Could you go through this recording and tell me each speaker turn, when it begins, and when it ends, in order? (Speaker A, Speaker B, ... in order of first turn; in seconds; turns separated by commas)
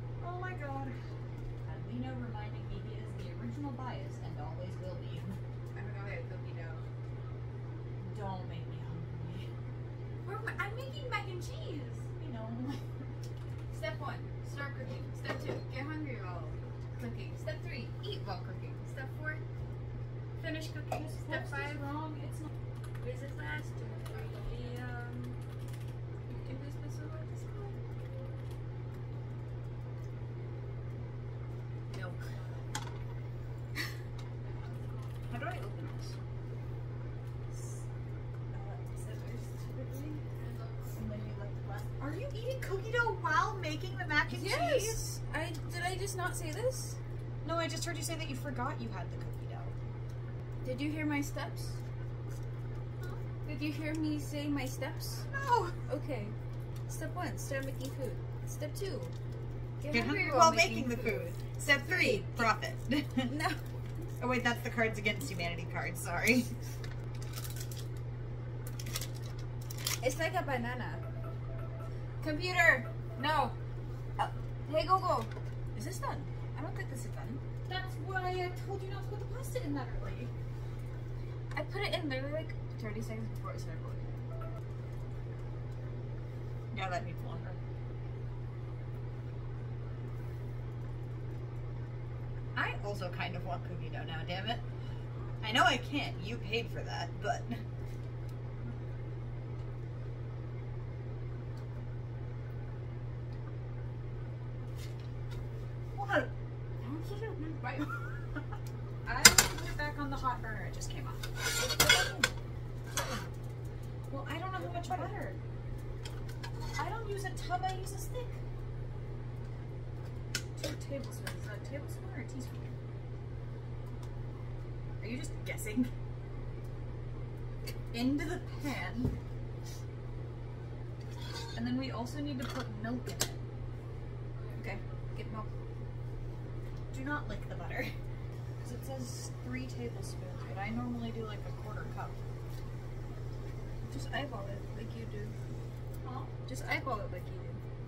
Speaker A: 0.2-1.0, Speaker A: 1.6-5.4, Speaker B: 5.7-6.8, Speaker A: 8.0-9.5, Speaker B: 10.2-12.1, Speaker A: 12.2-12.8, Speaker B: 13.7-19.4, Speaker B: 20.4-21.9, Speaker A: 20.9-22.5, Speaker B: 23.0-25.4, Speaker B: 26.3-27.8, Speaker B: 31.9-32.3, Speaker B: 35.3-36.2, Speaker A: 38.5-40.2, Speaker B: 39.5-40.2, Speaker A: 40.9-45.0, Speaker B: 44.3-47.0, Speaker A: 47.4-49.8, Speaker B: 50.6-51.8, Speaker B: 53.4-55.3, Speaker A: 55.3-55.8, Speaker B: 55.9-56.4, Speaker B: 56.9-59.1, Speaker B: 59.8-62.5, Speaker A: 59.9-63.3, Speaker B: 63.2-63.6, Speaker A: 64.2-66.5, Speaker B: 70.0-71.0, Speaker B: 72.2-73.6, Speaker B: 74.2-77.4, Speaker A: 75.8-76.3, Speaker A: 77.7-80.3, Speaker B: 81.5-84.2, Speaker A: 86.7-87.6, Speaker A: 92.5-94.6, Speaker A: 95.4-97.6, Speaker A: 105.9-106.3, Speaker B: 106.8-107.9, Speaker A: 109.0-112.3, Speaker B: 111.6-112.3, Speaker A: 114.1-115.4, Speaker B: 114.5-115.2, Speaker A: 116.8-118.4, Speaker A: 120.6-122.8, Speaker A: 125.0-125.9, Speaker A: 127.9-129.2, Speaker A: 131.5-133.4, Speaker B: 134.6-135.5, Speaker A: 136.9-138.0, Speaker A: 138.6-142.2, Speaker B: 143.9-145.3, Speaker A: 146.0-146.3, Speaker B: 146.5-147.6